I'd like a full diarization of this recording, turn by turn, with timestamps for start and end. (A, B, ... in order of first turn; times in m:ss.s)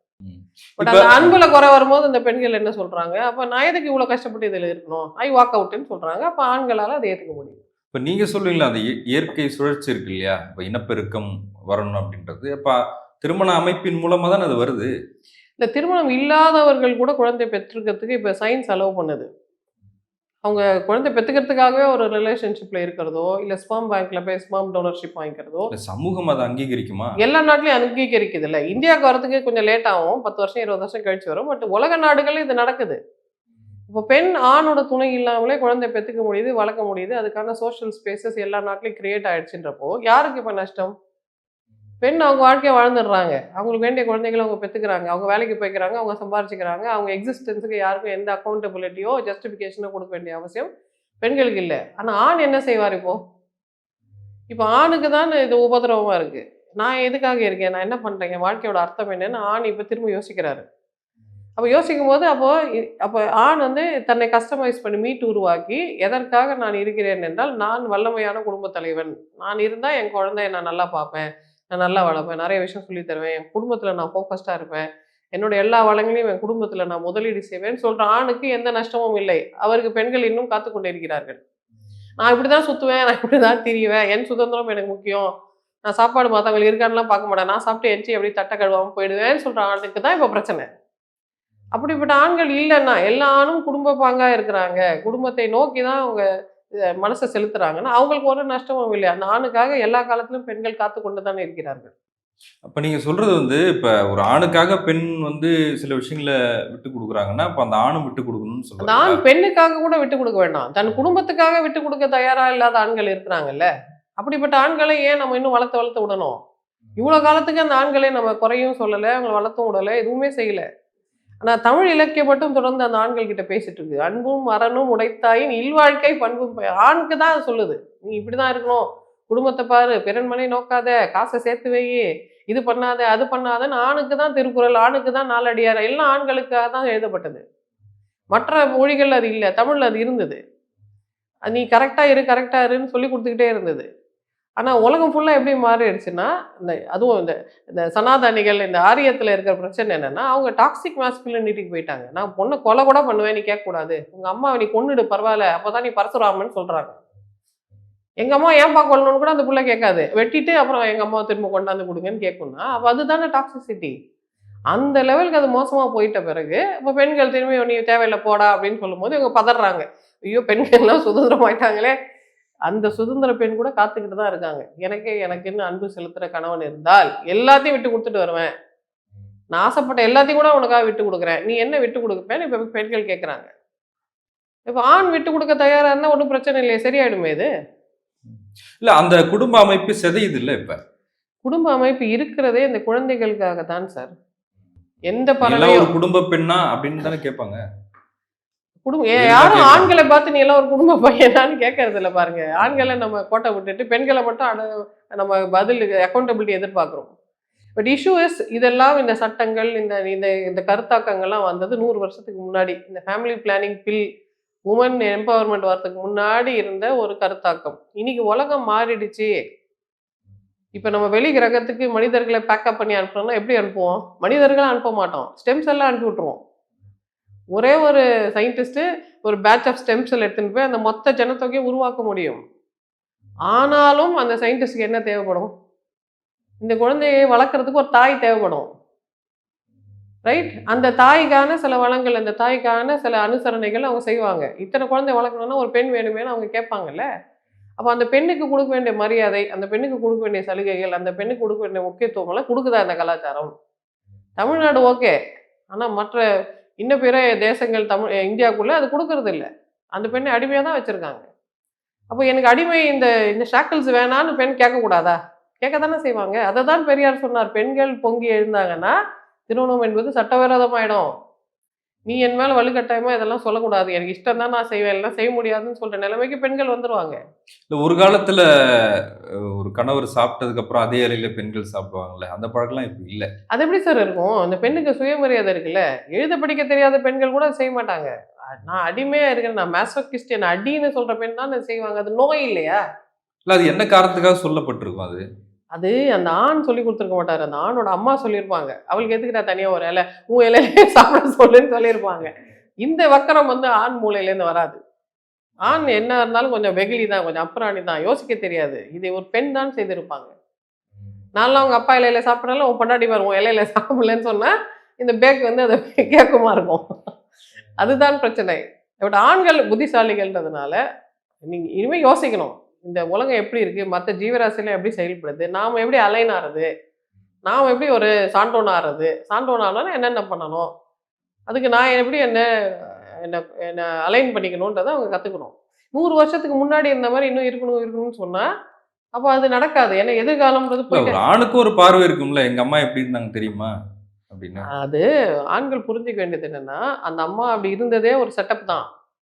0:00.2-0:01.3 A
0:00.8-0:07.6 B
0:07.9-0:14.9 A
0:15.6-0:19.3 B
0:20.4-0:25.7 B
0:25.7-0:27.2 A
0:27.2-0:33.0 B
0:33.9-0:40.9 B
0:42.0-0:50.7 B
0:51.2-0:53.2 B
0:54.5-1:00.6 B
1:01.6-1:14.8 B
1:15.4-1:21.4 B
1:22.2-1:25.3 B
1:25.9-1:30.7 B
1:31.7-1:36.2 B
1:37.0-1:41.9 B
1:42.6-1:49.2 A
1:48.8-1:56.4 B
1:57.0-2:00.7 B
2:01.4-2:17.4 B
2:18.3-2:20.4 B
2:21.5-2:23.8 B
2:24.6-2:37.0 B
2:38.2-2:43.9 B
2:44.7-2:52.0 B
2:52.7-2:58.5 B
2:59.6-3:03.5 B
3:04.7-3:07.5 B
3:08.8-3:10.8 A
3:11.4-3:14.1 B
3:15.1-3:15.9 B
3:15.4-3:17.6 A
3:18.9-3:27.1 B
3:19.2-3:19.9 A
3:27.8-3:34.0 B
3:34.7-3:39.4 B
3:40.8-3:46.4 B
3:47.6-3:52.4 B
3:53.5-3:55.5 B
3:56.6-3:58.7 B
4:00.3-4:07.1 B
4:07.8-4:13.5 B
4:14.4-4:15.2 B
4:15.7-4:16.2 B
4:16.8-4:21.2 B
4:22.1-4:29.0 B
4:29.5-4:31.1 B
4:32.1-4:37.2 B
4:37.7-4:38.4 A
4:39.6-4:43.3 A
4:43.5-4:48.1 B
4:48.6-4:52.8 B
4:53.5-4:55.2 A
4:55.8-5:02.3 B
5:02.8-5:04.8 B
5:05.6-5:10.3 B
5:11.4-5:16.8 B
5:17.8-5:20.8 B
5:21.5-5:26.7 B
5:27.5-5:30.7 B
5:31.5-5:38.5 B
5:39.2-5:41.2 B
5:40.9-5:43.7 A
5:44.3-5:44.6 A
5:44.8-5:48.9 B